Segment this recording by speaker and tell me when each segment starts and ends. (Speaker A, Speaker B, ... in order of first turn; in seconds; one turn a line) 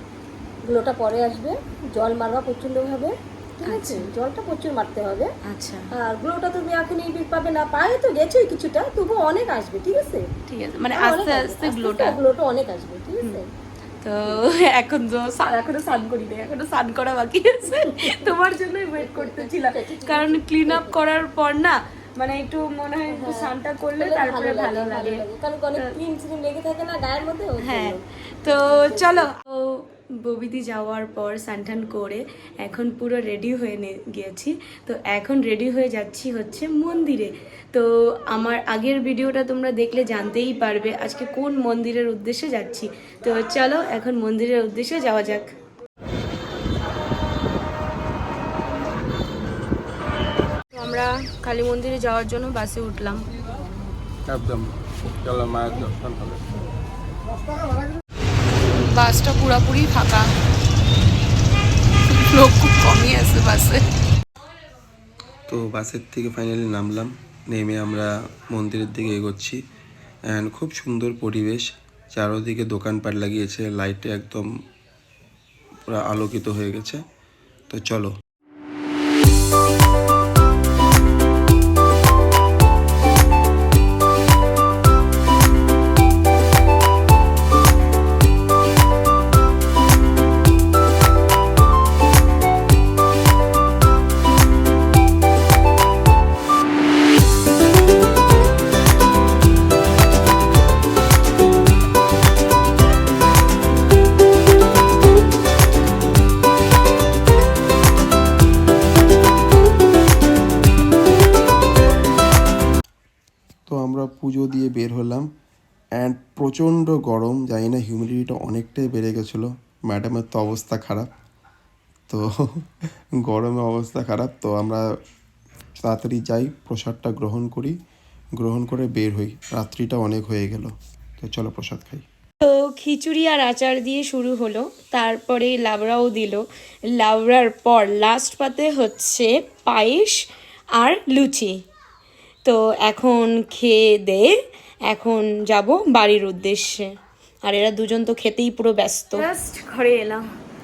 Speaker A: 0.7-5.3
Speaker B: 3.7-4.1
Speaker B: 5.4-5.9
Speaker A: 6.0-10.3
Speaker B: 10.5-12.2
Speaker A: 10.9-13.5
Speaker B: 14.0-25.2
Speaker A: 17.7-18.4
Speaker A: 19.0-21.0
Speaker A: 23.1-29.3
Speaker B: 27.6-45.5
Speaker B: 50.7-53.3
Speaker C: 54.3-56.5
Speaker B: 58.8-60.3
Speaker B: 62.1-63.8
Speaker C: 65.5-69.6
Speaker C: 70.3-74.5
Speaker C: 75.9-77.0
Speaker C: 77.7-78.1
Speaker C: 113.7-115.3
Speaker C: 116.0-121.1
Speaker C: 122.1-122.6
Speaker C: 123.2-124.8
Speaker C: 125.8-127.8
Speaker C: 128.4-132.0
Speaker B: 132.4-136.4
Speaker B: 137.0-140.2
Speaker B: 140.8-141.6
Speaker B: 142.4-144.3
Speaker B: 144.9-146.9
Speaker B: 147.5-150.2